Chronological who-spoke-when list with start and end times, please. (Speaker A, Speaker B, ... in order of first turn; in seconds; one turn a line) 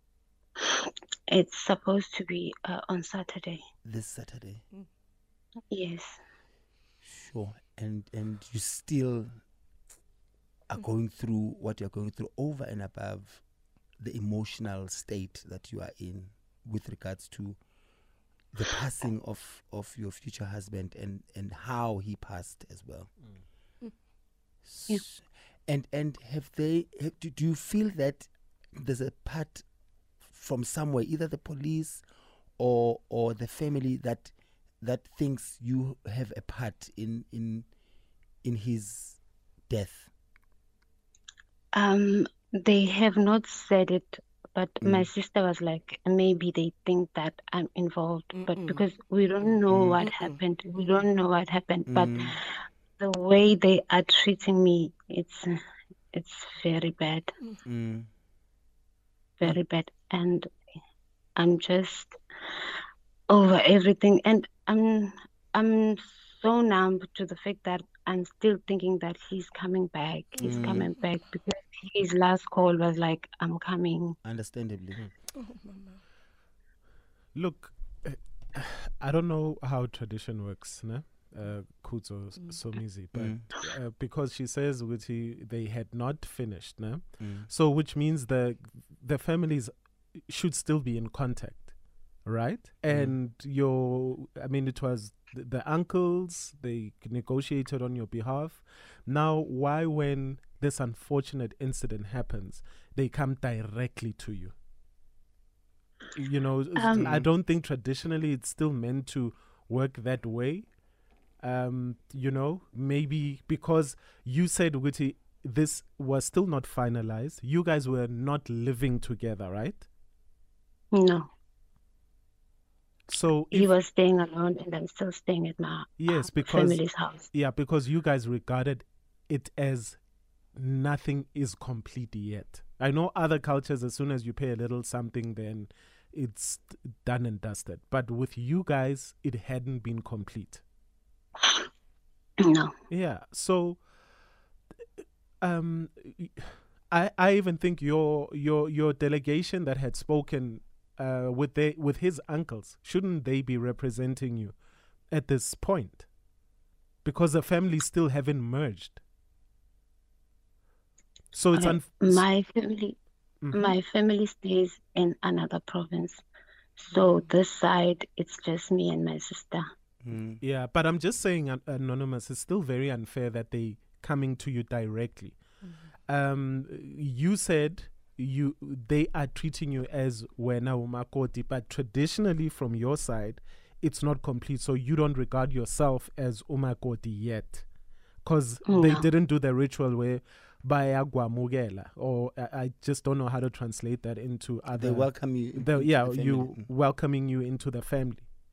Speaker A: 0.6-3.6
Speaker B: 3.8-4.6
Speaker A: 5.7-6.2
Speaker B: 7.0-9.3
Speaker B: 10.7-13.4
Speaker B: 14.0-17.6
Speaker B: 18.5-23.1
Speaker B: 24.6-29.6
Speaker B: 30.2-32.0
Speaker B: 32.6-37.7
Speaker B: 38.4-40.1
Speaker A: 41.7-55.5
Speaker B: 44.8-45.1
Speaker C: 48.3-48.8
Speaker B: 49.7-50.0
Speaker C: 50.0-50.4
Speaker B: 51.9-52.4
Speaker A: 56.1-57.3
Speaker B: 57.6-58.1
Speaker A: 59.4-60.5
Speaker A: 61.4-74.2
Speaker C: 70.4-70.8
Speaker B: 70.4-70.9
Speaker B: 74.2-75.0
Speaker C: 75.3-76.0
Speaker D: 77.3-104.5
Speaker B: 83.1-83.4
Speaker B: 87.2-87.5
Speaker B: 92.9-93.2
Speaker D: 106.1-110.7
Speaker A: 106.8-107.2
Speaker D: 111.4-119.9
Speaker A: 120.9-121.3
Speaker D: 123.1-123.7
Speaker A: 123.5-127.3
Speaker D: 126.0-130.0
Speaker D: 130.5-140.6
Speaker A: 142.4-142.7
Speaker D: 142.9-143.8
Speaker D: 145.4-154.5
Speaker D: 155.1-156.1
Speaker D: 157.0-159.0
Speaker D: 161.3-162.2
Speaker A: 161.5-163.0
Speaker D: 163.4-163.8
Speaker A: 163.5-166.2
Speaker A: 166.8-169.7
Speaker C: 166.9-167.2
Speaker B: 170.0-170.4
Speaker D: 170.4-175.4
Speaker C: 175.6-175.9
Speaker D: 176.1-187.7
Speaker D: 188.2-198.3
Speaker A: 188.7-189.1
Speaker B: 194.7-196.7